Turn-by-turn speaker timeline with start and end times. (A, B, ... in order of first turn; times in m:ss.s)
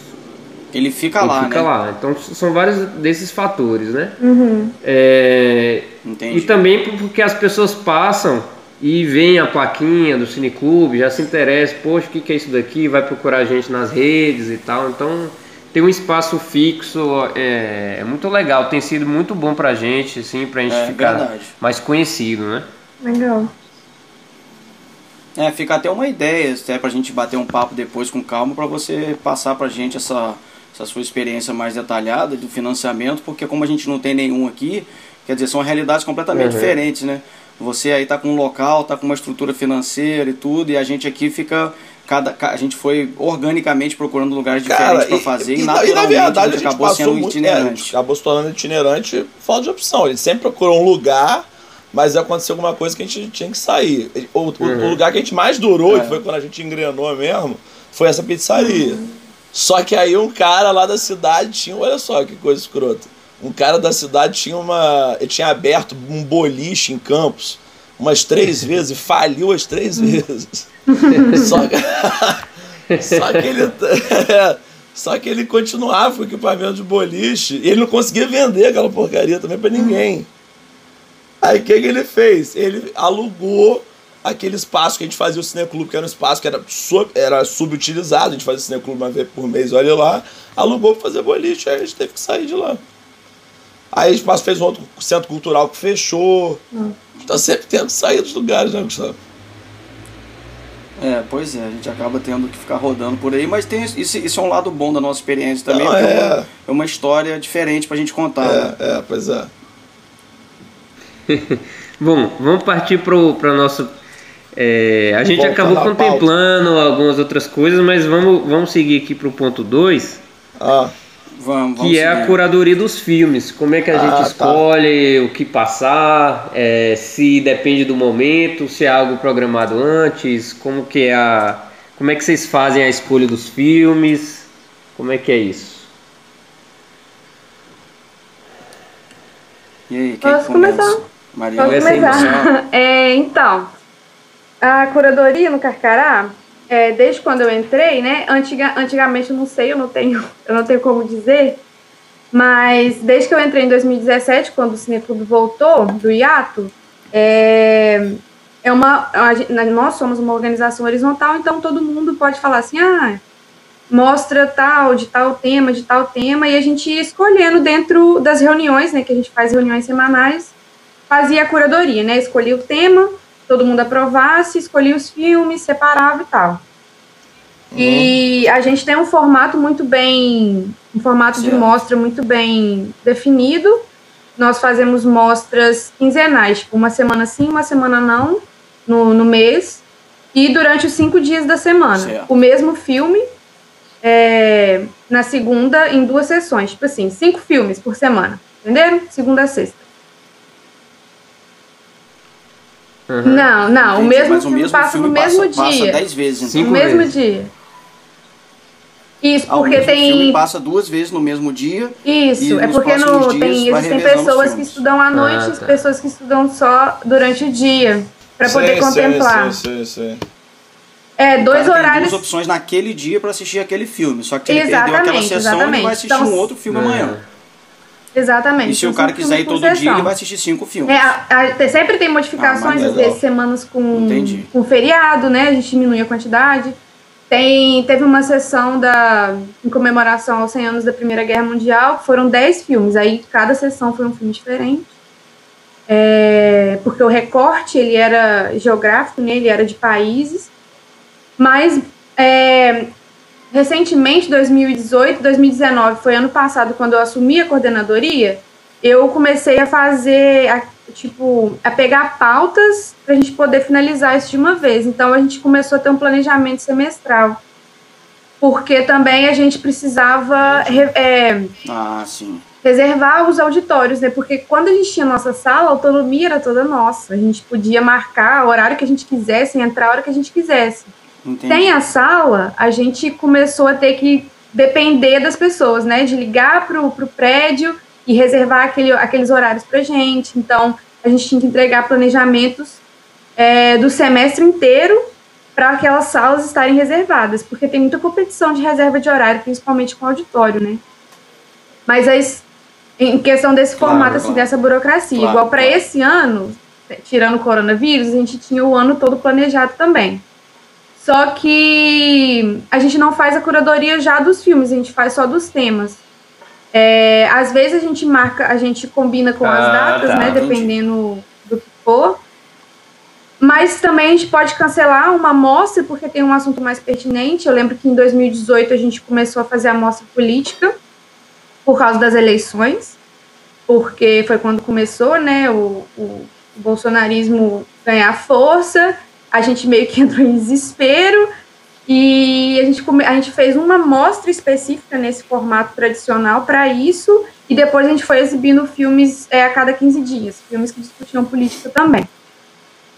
0:00.7-0:01.7 A
0:01.2-0:04.2 B
0:04.2-0:04.8 C
0:04.8-0:22.7 B
0:06.0-0:06.5 A
0:20.7-0:21.5 A
0:23.0-0:23.5 C
0:25.4-0:47.9 A
0:36.3-0:36.8 B
0:44.6-0:59.0 D
0:54.6-0:55.0 B
0:55.9-0:56.2 A
0:58.6-0:59.0 C
0:59.5-1:10.7 D
1:10.9-1:11.5 C
1:11.3-1:12.5 D
1:12.9-1:13.5 B
1:13.0-1:20.3 D
1:19.8-1:20.0 C
1:21.4-1:32.8 D
1:33.9-1:36.6 D
1:37.3-1:39.2 D
1:41.0-1:48.8 A
1:45.7-1:46.5 D
1:48.4-1:49.5 D
1:51.3-1:54.0 B
1:54.6-2:00.2 B
1:55.4-1:56.3 D
2:00.6-2:00.9 D
2:01.4-2:02.4 A
2:01.8-2:15.9 B
2:03.9-2:04.6 D
2:19.9-2:22.5 A
2:20.2-2:21.0 C
2:21.6-2:23.7 C
2:21.6-2:22.3 B
2:24.6-2:31.6 C
2:32.3-2:43.2 C
2:43.9-2:50.5 C
2:51.1-2:56.6 C
2:57.7-2:58.1 D
2:57.8-3:09.8 C
3:01.3-3:01.7 A
3:10.3-3:13.3 C
3:11.9-3:12.3 A
3:14.0-3:19.8 C
3:23.1-3:23.5 B
3:23.2-3:26.0 C
3:23.8-3:26.8 A
3:26.4-3:27.1 B
3:26.6-3:27.5 C
3:29.2-3:30.4 C
3:29.5-3:34.8 A
3:32.0-3:39.6 C
3:35.1-3:35.9 B
3:38.4-3:40.2 D
3:41.2-3:42.2 C
3:41.4-3:47.2 A
3:44.5-3:46.5 C
3:46.7-3:47.2 B
3:48.1-3:50.1 C
3:48.6-3:51.1 A
3:50.9-3:56.8 C
3:52.4-3:53.1 A
3:52.7-3:53.2 D
3:53.9-3:54.5 A
3:57.3-4:04.9 C
4:05.9-4:10.5 C
4:11.4-4:12.9 C
4:13.5-4:27.4 C
4:28.4-4:31.5 C
4:30.4-4:30.9 A
4:31.6-4:32.4 A
4:32.6-4:40.9 C
4:41.2-4:41.7 A
4:41.5-4:52.8 C
4:53.4-4:55.0 C
4:55.6-5:00.8 C
5:01.9-5:02.4 C
5:03.0-5:10.2 C
5:03.8-5:04.5 A
5:03.8-5:04.3 B
5:05.1-5:05.8 A
5:11.0-5:16.0 C
5:16.7-5:22.2 C
5:19.4-5:20.5 B
5:20.2-5:20.7 A
5:23.4-5:30.8 C
5:31.6-5:33.0 C
5:33.7-5:41.3 C
5:41.9-5:52.1 C